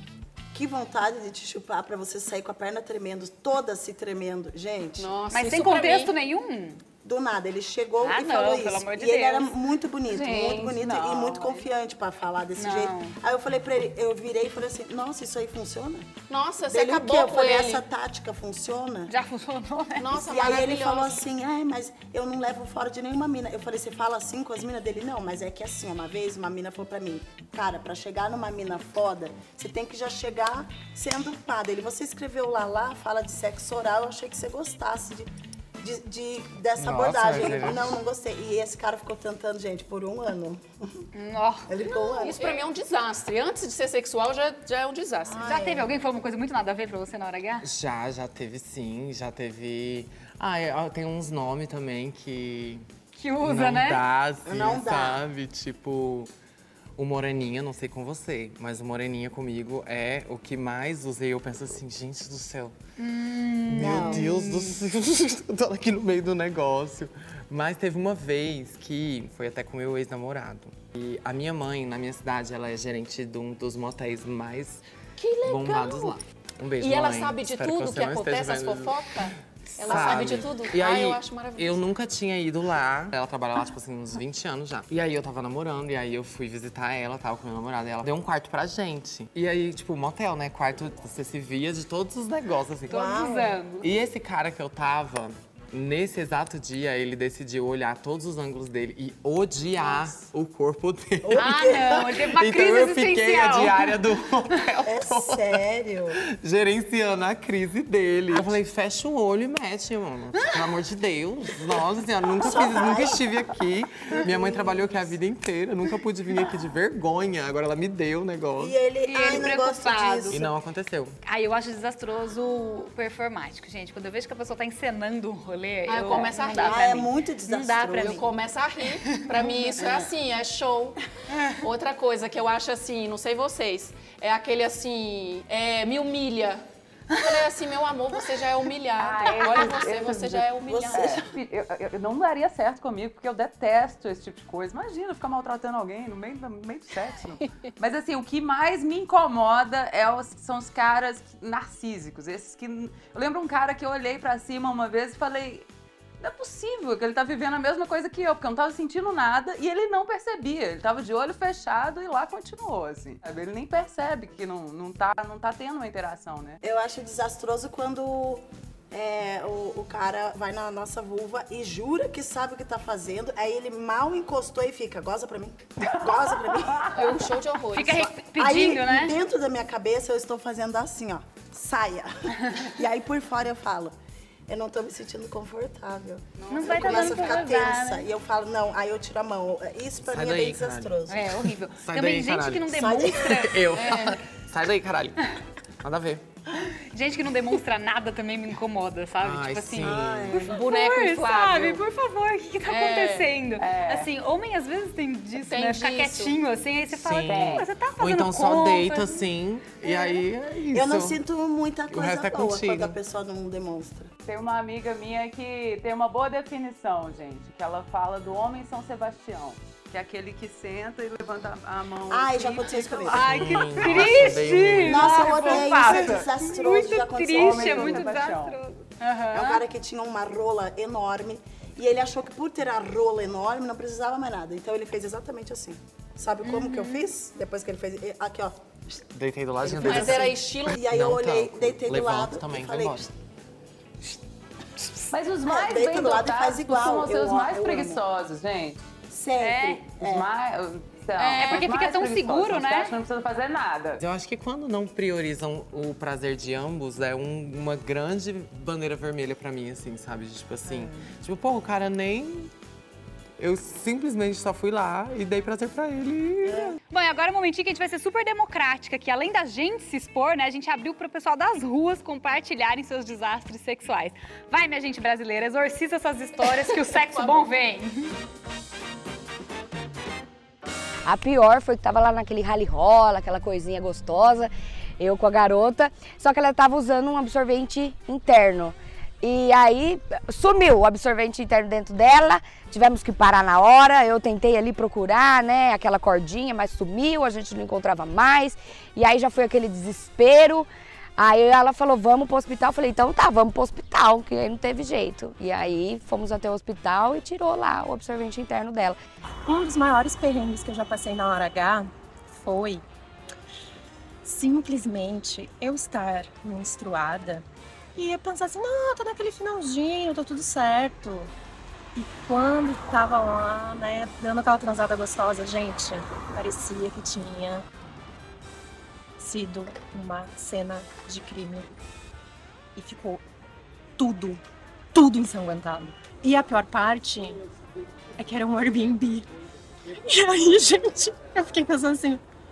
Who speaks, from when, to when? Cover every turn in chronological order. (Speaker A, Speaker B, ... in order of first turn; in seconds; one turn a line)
Speaker A: 0.5-5.1
Speaker B: 5.0-6.1
Speaker C: 5.3-6.8
Speaker A: 7.0-16.1
Speaker C: 8.0-9.5
Speaker D: 10.1-11.6
Speaker C: 12.6-13.2
Speaker B: 16.3-17.9
Speaker A: 16.7-19.1
Speaker C: 19.1-20.2
Speaker B: 20.0-21.2
Speaker A: 20.1-35.3
Speaker A: 35.8-41.0
Speaker E: 36.8-38.0
Speaker C: 41.1-41.7
Speaker A: 41.7-42.6
Speaker B: 42.0-45.5
Speaker A: 45.2-45.9
Speaker C: 45.4-47.7
Speaker E: 47.6-52.8
Speaker C: 53.1-54.0
Speaker E: 53.4-56.3
Speaker A: 54.4-55.3
Speaker E: 57.0-62.7
Speaker C: 63.0-64.8
Speaker E: 63.7-74.8
Speaker A: 63.8-64.3
Speaker B: 75.2-76.2
Speaker E: 75.4-79.0
Speaker B: 76.8-81.8
Speaker E: 79.7-93.2
Speaker A: 79.9-80.3
Speaker C: 92.9-93.9
Speaker A: 92.9-93.6
Speaker E: 93.8-105.6
Speaker A: 101.2-102.1
Speaker C: 101.3-104.0
Speaker A: 104.8-106.2
Speaker E: 106.3-118.7
Speaker A: 112.4-113.3
Speaker A: 114.2-115.1
Speaker A: 118.6-120.5
Speaker C: 119.0-120.4
Speaker E: 120.3-121.2
Speaker C: 121.2-128.2
Speaker B: 125.9-126.8
Speaker A: 126.4-128.3
Speaker B: 128.0-131.0
Speaker C: 129.1-130.0
Speaker B: 131.5-141.2
Speaker D: 139.0-155.7
Speaker A: 140.7-141.3
Speaker D: 156.2-166.6
Speaker A: 166.6-177.2
Speaker B: 176.9-178.1
Speaker C: 177.7-179.2
Speaker A: 178.3-183.9
Speaker A: 184.5-191.4
Speaker B: 186.4-187.5
Speaker C: 186.5-188.1
Speaker E: 190.0-190.9
Speaker C: 191.1-193.6
Speaker E: 191.8-196.2
Speaker A: 192.7-193.4
Speaker B: 193.7-194.2
Speaker C: 196.6-209.2
Speaker E: 199.2-200.4
Speaker A: 199.8-200.5
Speaker B: 200.4-201.8
Speaker B: 202.7-203.3
Speaker D: 203.6-204.1
Speaker B: 205.3-206.4
Speaker E: 206.9-211.2
Speaker D: 207.3-207.7
Speaker C: 209.8-210.2
Speaker A: 210.7-214.1
Speaker E: 211.9-212.9
Speaker D: 214.2-224.1
Speaker A: 222.1-224.2
Speaker C: 223.1-229.6
Speaker E: 223.2-225.3
Speaker A: 224.8-228.1
Speaker D: 225.3-226.3
Speaker D: 227.3-228.6
Speaker A: 229.3-239.0
Speaker C: 236.4-237.0
Speaker E: 239.1-243.1
Speaker A: 239.6-243.1
Speaker B: 239.7-240.8
Speaker A: 244.8-248.0
Speaker D: 245.1-248.8
Speaker A: 249.1-250.3
Speaker C: 249.4-249.8
Speaker D: 250.0-254.0
Speaker B: 251.2-251.6
Speaker C: 251.4-252.9
Speaker E: 254.0-262.5
Speaker E: 263.4-266.8
Speaker A: 266.4-266.8
Speaker C: 266.9-278.1
Speaker B: 276.6-277.5
Speaker F: 281.0-309.0
Speaker G: 309.4-312.8
Speaker G: 314.2-321.3
Speaker G: 321.9-327.6
Speaker G: 329.2-331.7
Speaker G: 332.8-333.2
Speaker G: 334.0-334.4
Speaker G: 334.9-337.4
Speaker G: 338.2-339.3
Speaker G: 340.0-342.2